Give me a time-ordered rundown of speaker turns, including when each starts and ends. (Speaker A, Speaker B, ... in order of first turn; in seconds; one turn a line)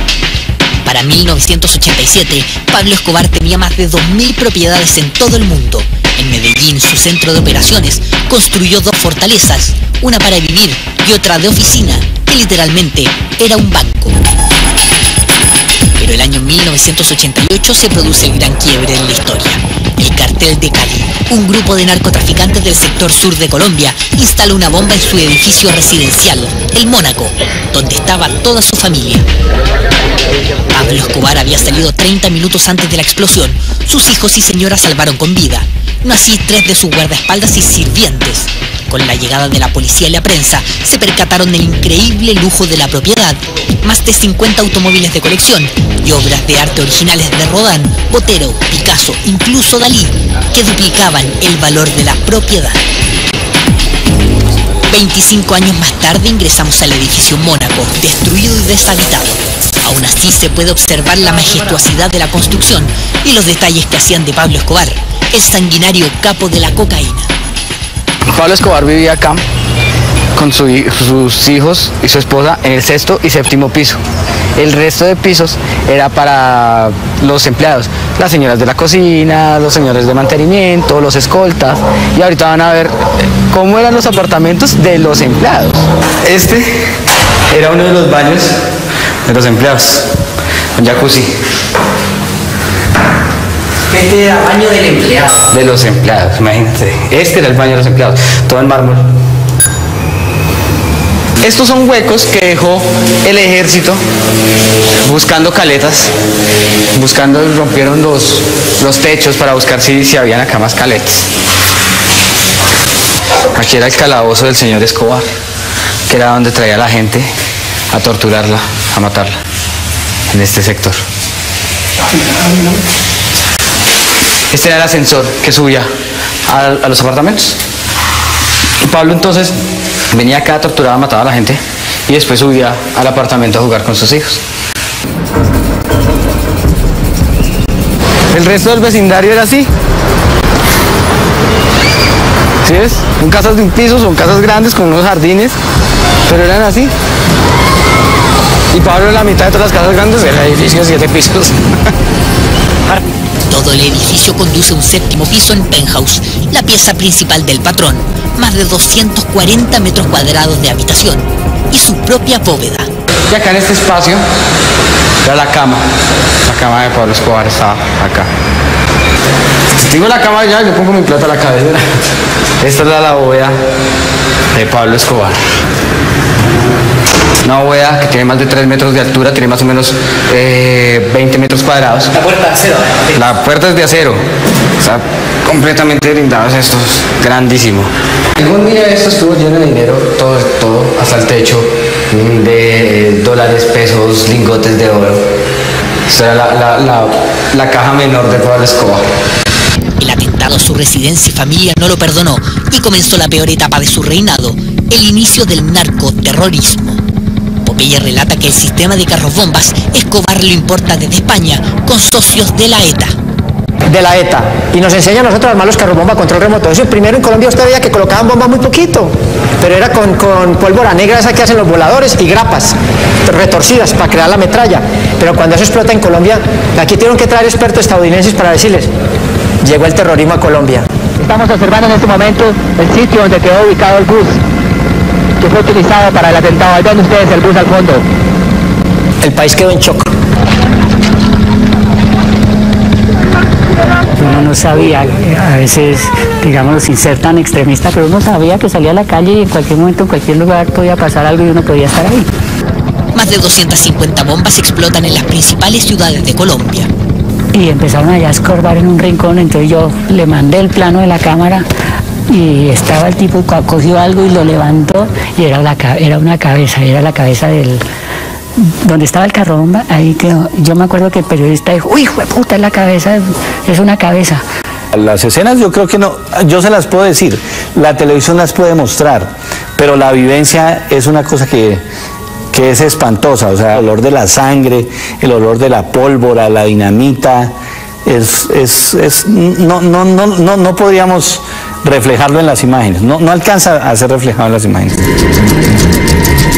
Speaker A: 0.8-14.3
Speaker A: 16.0-29.2
Speaker A: 30.7-52.8
Speaker A: 54.9-67.3
Speaker B: 68.3-69.4
Speaker B: 70.3-74.0
Speaker B: 74.6-83.0
Speaker B: 83.5-86.7
Speaker B: 87.5-88.5
Speaker B: 89.3-90.1
Speaker B: 90.8-91.3
Speaker C: 93.9-95.3
Speaker B: 95.5-99.0
Speaker B: 101.4-104.0
Speaker B: 105.0-106.1
Speaker B: 106.9-111.3
Speaker B: 113.5-115.2
Speaker B: 116.1-117.3
Speaker B: 117.9-119.3
Speaker B: 120.3-121.0
Speaker B: 124.5-125.9
Speaker B: 126.5-127.6
Speaker B: 128.8-129.5
Speaker B: 130.1-134.4
Speaker B: 138.3-139.7
Speaker B: 142.6-145.5
Speaker B: 146.3-146.9
Speaker B: 148.7-151.6
Speaker A: 153.5-162.9
Speaker B: 163.3-164.2
Speaker B: 165.2-165.8
Speaker B: 166.4-168.3
Speaker B: 169.8-171.8
Speaker B: 172.6-173.6
Speaker B: 174.5-175.4
Speaker B: 177.4-182.1
Speaker C: 182.1-183.1
Speaker B: 183.1-184.2
Speaker B: 184.8-195.2
Speaker B: 196.1-199.1
Speaker A: 200.0-207.0
Speaker A: 207.6-213.1
Speaker D: 213.9-228.9
Speaker D: 229.6-230.9
Speaker E: 231.2-234.3
Speaker E: 235.4-238.0
Speaker D: 239.2-240.1
Speaker F: 244.1-252.3
Speaker A: 253.1-256.9
Speaker F: 257.5-261.6
Speaker F: 262.3-267.8
Speaker F: 268.6-274.4
Speaker G: 274.9-281.8
Speaker G: 282.5-287.5
Speaker G: 288.0-295.0